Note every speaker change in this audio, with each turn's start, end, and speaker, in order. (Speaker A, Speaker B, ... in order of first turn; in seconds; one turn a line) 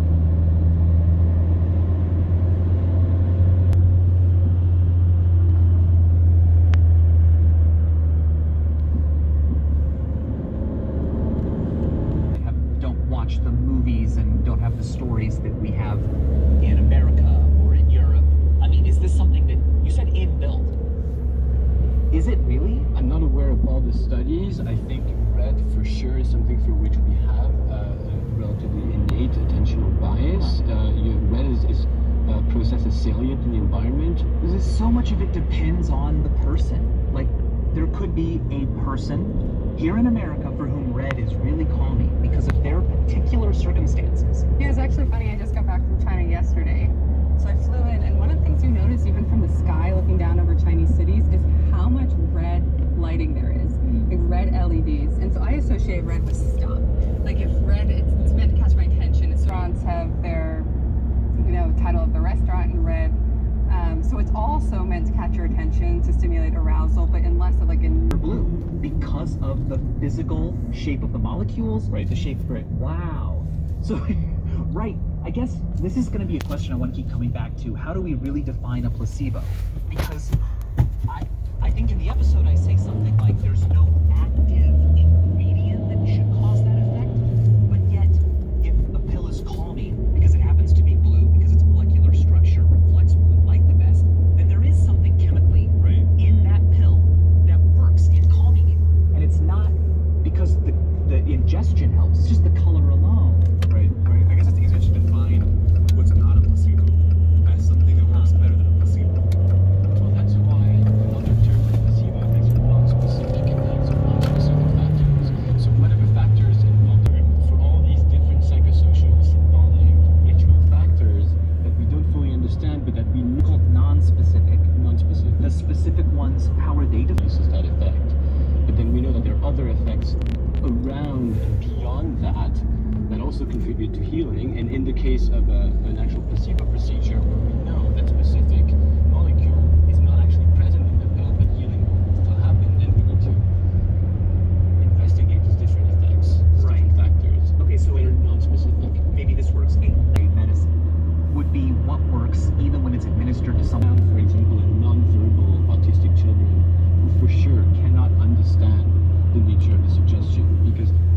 Speaker A: 12.3-20.7
Speaker A: 22.1-22.9
Speaker B: 22.9-34.3
Speaker A: 30.3-30.6
Speaker A: 34.4-44.5
Speaker C: 44.6-60.7
Speaker A: 53.8-54.1
Speaker C: 61.4-68.2
Speaker A: 68.1-80.4
Speaker A: 81.1-103.7
Speaker D: 95.8-96.1
Speaker D: 103.7-109.3
Speaker A: 108.0-108.3
Speaker B: 110.0-123.5
Speaker A: 123.4-124.7
Speaker B: 124.7-125.5
Speaker A: 125.4-127.2
Speaker B: 127.2-143.4
Speaker B: 144.8-149.1
Speaker A: 146.6-147.0
Speaker A: 147.6-148.2
Speaker A: 149.1-150.7
Speaker A: 151.3-153.8
Speaker B: 153.8-160.9